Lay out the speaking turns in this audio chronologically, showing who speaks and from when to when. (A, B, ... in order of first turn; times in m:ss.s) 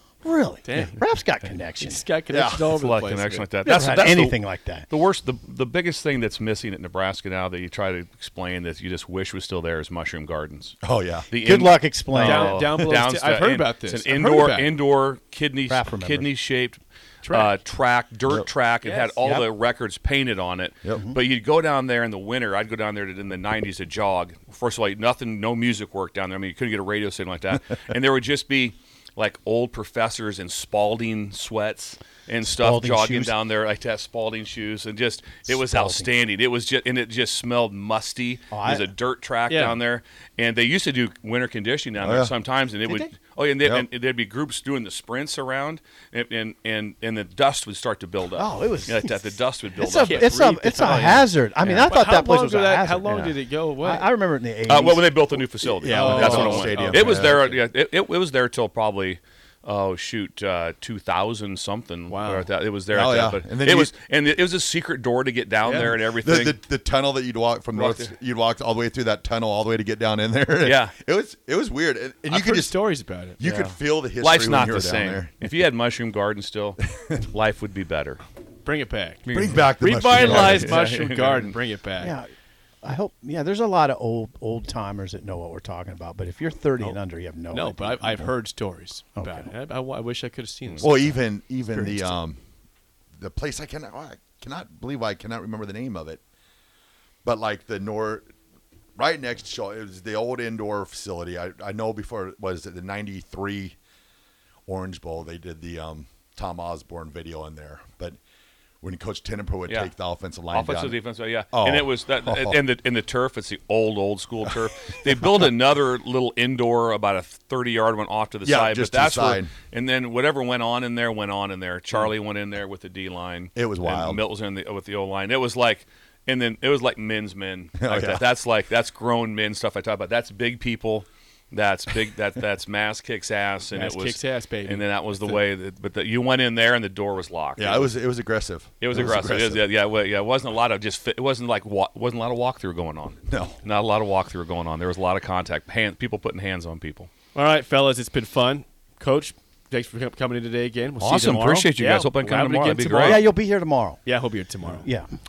0:00.2-0:02.0 A
0:00.6-0:01.0 B
0:01.8-0:03.5 B
0:02.3-0:02.7 C
0:02.7-0:10.8 D
0:03.6-0:04.9 A
0:10.8-0:11.3 C
0:11.3-0:50.3 D
0:11.4-0:12.7 A
0:12.2-0:14.7 B
0:15.7-0:16.3 A
0:17.2-0:17.6 B
0:18.8-0:19.5 B
0:32.4-0:33.3 A
0:35.5-0:36.1 A
0:38.5-0:38.9 A
0:39.5-0:39.8 B
0:42.0-0:42.3 C
0:42.9-0:43.1 A
0:48.4-0:49.2 A
0:49.8-0:55.4 A
0:49.9-0:54.1 B
0:54.7-1:06.6 D
0:55.8-0:57.4 C
0:55.8-0:57.6 B
0:56.2-0:56.4 A
1:02.1-1:02.5 B
1:02.9-1:03.9 C
1:05.6-1:12.8 C
1:07.7-1:08.1 D
1:10.6-1:10.9 D
1:12.3-1:13.4 B
1:13.4-1:15.3 C
1:13.4-1:18.2 D
1:18.6-1:19.2 B
1:19.2-1:21.6 D
1:19.3-1:20.8 C
1:19.8-1:22.2 B
1:22.0-1:22.3 A
1:22.8-1:28.3 A
1:27.5-1:31.2 B
1:29.2-1:29.5 A
1:30.8-1:32.4 C
1:31.7-1:32.1 B
1:33.2-1:36.2 C
1:37.2-1:38.2 C
1:39.0-1:43.8 C
1:44.7-1:48.2 C
1:48.8-1:52.6 C
1:49.7-1:49.9 D
1:50.5-2:18.0 D
1:58.4-1:59.5 C
2:03.6-2:04.2 C
2:07.8-2:08.2 C
2:13.7-2:15.4 B
2:17.6-2:19.6 C
2:18.8-2:27.1 D
2:23.3-2:23.6 C
2:27.3-2:34.9 B
2:31.0-2:33.3 D
2:33.0-2:34.0 A
2:34.8-2:35.1 A